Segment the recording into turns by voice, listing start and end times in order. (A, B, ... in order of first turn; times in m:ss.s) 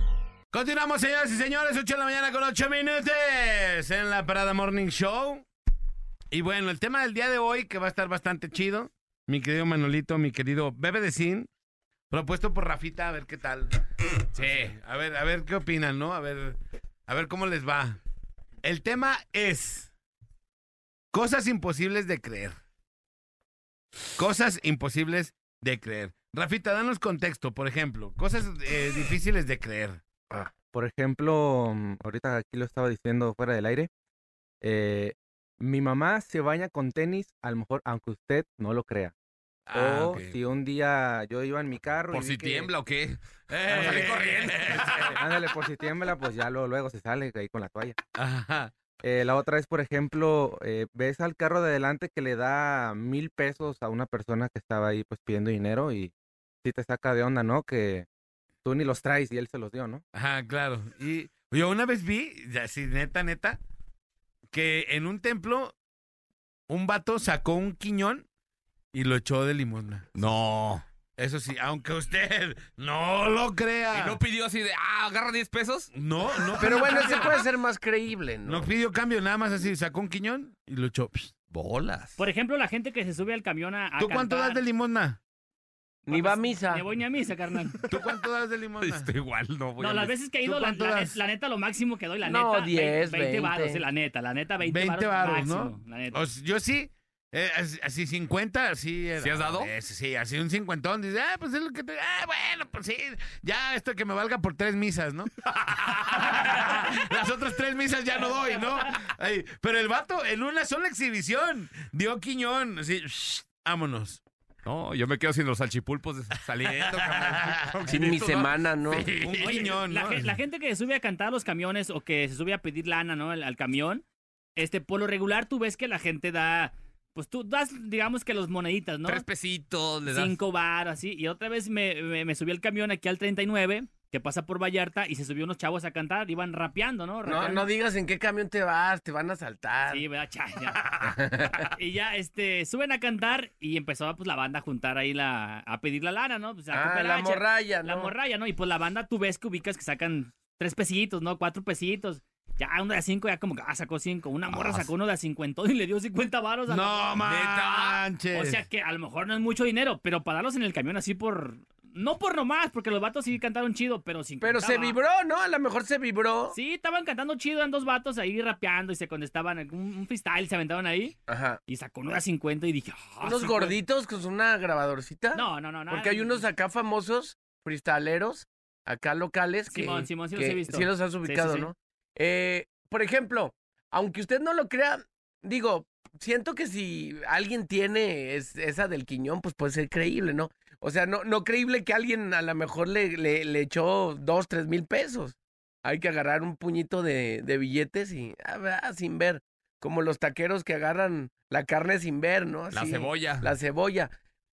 0:00.5-0:05.4 A
0:06.3-0:11.5 A
0:12.1-0:13.7 A
0:14.3-0:18.0 A
0:14.4-0:14.7 B
0:18.6-0:19.9 A
0:21.1-0:22.6 A
0:24.2-0:30.0 A
0:30.7-0:33.9 C
0:34.6-0:39.1 C
0:39.7-0:40.3 A
0:39.7-0:42.7 C
0:42.1-0:45.2 B
0:43.5-0:45.2 A
0:45.0-0:48.0 C
0:48.2-0:48.7 A
0:49.0-0:56.1 C
0:56.6-0:58.0 C
0:58.6-1:00.0 C
1:00.1-1:03.6 A
1:04.5-1:05.7 A
1:06.7-1:08.2 A
1:08.9-1:10.0 A
1:10.1-1:10.8 B
1:11.2-1:14.2 A
1:13.9-1:15.9 B
1:15.9-1:17.4 A
1:16.6-1:18.7 D
1:18.4-1:21.3 A
1:21.5-1:22.2 B
1:22.2-1:24.6 E
1:24.0-1:25.2 A
1:26.1-1:26.8 D
1:26.1-1:27.8 E
1:27.9-1:29.1 A
1:28.8-1:30.1 B
1:29.8-1:36.2 E
1:30.4-1:31.2 A
1:32.2-1:33.8 D
1:34.6-1:54.2 A
1:39.2-1:39.7 B
1:54.6-1:59.7 B
1:56.6-1:57.9 A
1:57.9-1:59.1 D
1:59.2-2:00.3 A
1:59.4-2:04.0 E
2:04.6-2:09.2 E
2:09.0-2:10.4 B
2:10.0-2:17.6 E
2:17.2-2:20.0 D
2:19.9-2:21.1 E
2:21.1-2:21.6 D
2:21.7-2:37.2 E
2:26.7-2:28.1 D
2:34.5-2:34.8 B
2:36.7-2:38.6 A
2:37.2-2:38.0 B
2:38.3-2:45.0 E
2:44.4-2:46.6 D
2:46.5-2:53.7 E
2:51.3-2:51.6 D
2:53.2-3:24.1 D
2:55.3-2:56.4 E
2:59.7-3:01.7 E
3:22.7-3:23.5 B